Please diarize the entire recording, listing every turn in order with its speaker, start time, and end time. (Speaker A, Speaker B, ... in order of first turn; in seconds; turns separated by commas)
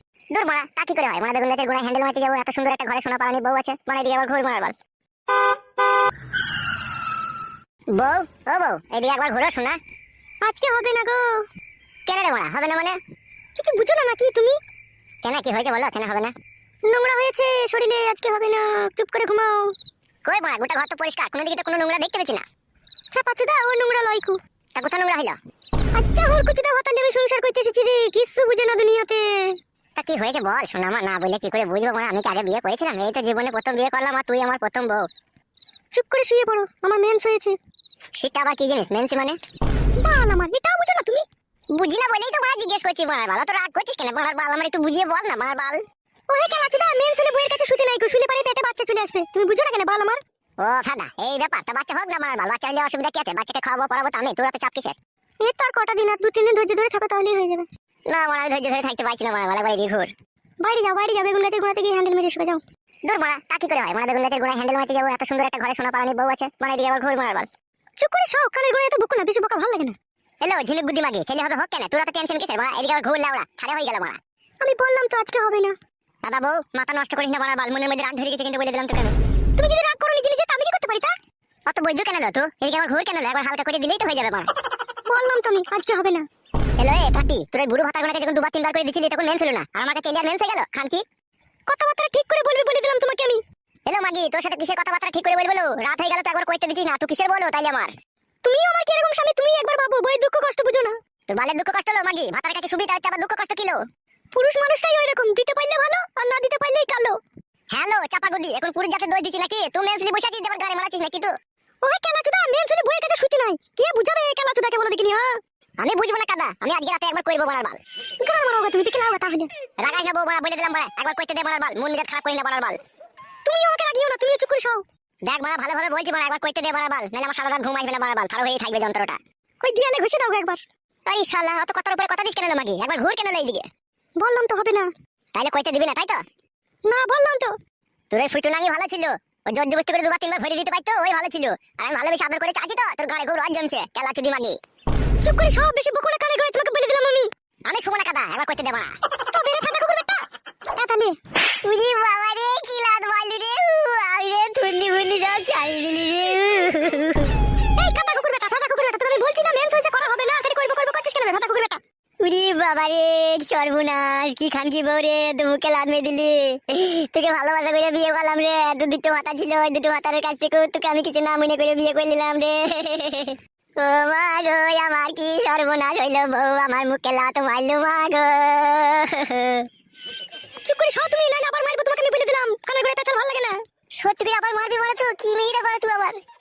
Speaker A: 0.3-4.8, Speaker A: 7.9-9.8, Speaker B: 10.4-11.2, Speaker A: 12.1-13.0, Speaker B: 13.6-14.6, Speaker A: 15.2-16.3, Speaker B: 16.9-19.7, Speaker A: 20.2-22.4, Speaker B: 23.1-24.4, Speaker A: 24.8-25.4, Speaker B: 25.9-29.5, Speaker A: 29.9-35.0, Speaker B: 35.9-37.6, Speaker A: 38.1-39.4, Speaker B: 40.0-41.2, Speaker A: 41.7-45.8, Speaker B: 46.3-50.2, Speaker A: 50.6-55.0, Speaker B: 55.4-57.7, Speaker A: 58.1-60.1, Speaker B: 60.6-62.6, Speaker A: 63.0-67.5, Speaker B: 68.0-70.0, Speaker A: 70.4-74.2, Speaker B: 74.6-75.7, Speaker A: 76.2-79.1, Speaker B: 79.6-81.1, Speaker A: 81.7-84.5, Speaker B: 85.1-86.2, Speaker A: 86.8-91.0, Speaker B: 91.7-93.4, Speaker A: 93.8-97.9, Speaker B: 98.4-101.0, Speaker A: 101.3-103.8, Speaker B: 104.3-107.2, Speaker A: 107.7-111.3, Speaker B: 111.8-115.3, Speaker A: 115.8-117.8, Speaker B: 118.2-119.5, Speaker A: 119.8-122.8, Speaker B: 123.4-124.8, Speaker A: 125.2-129.2, Speaker B: 129.6-130.6, Speaker A: 131.1-133.7, Speaker B: 134.2-134.9, Speaker A: 135.3-136.2, Speaker B: 136.9-137.5, Speaker A: 138.1-144.6, Speaker B: 145.2-147.3, Speaker A: 147.7-149.0, Speaker B: 149.3-150.2, Speaker B: 150.7-151.2, Speaker A: 151.6-157.4, Speaker B: 157.7-161.8, Speaker A: 162.2-179.7, Speaker B: 180.6-183.6, Speaker A: 184.0-186.2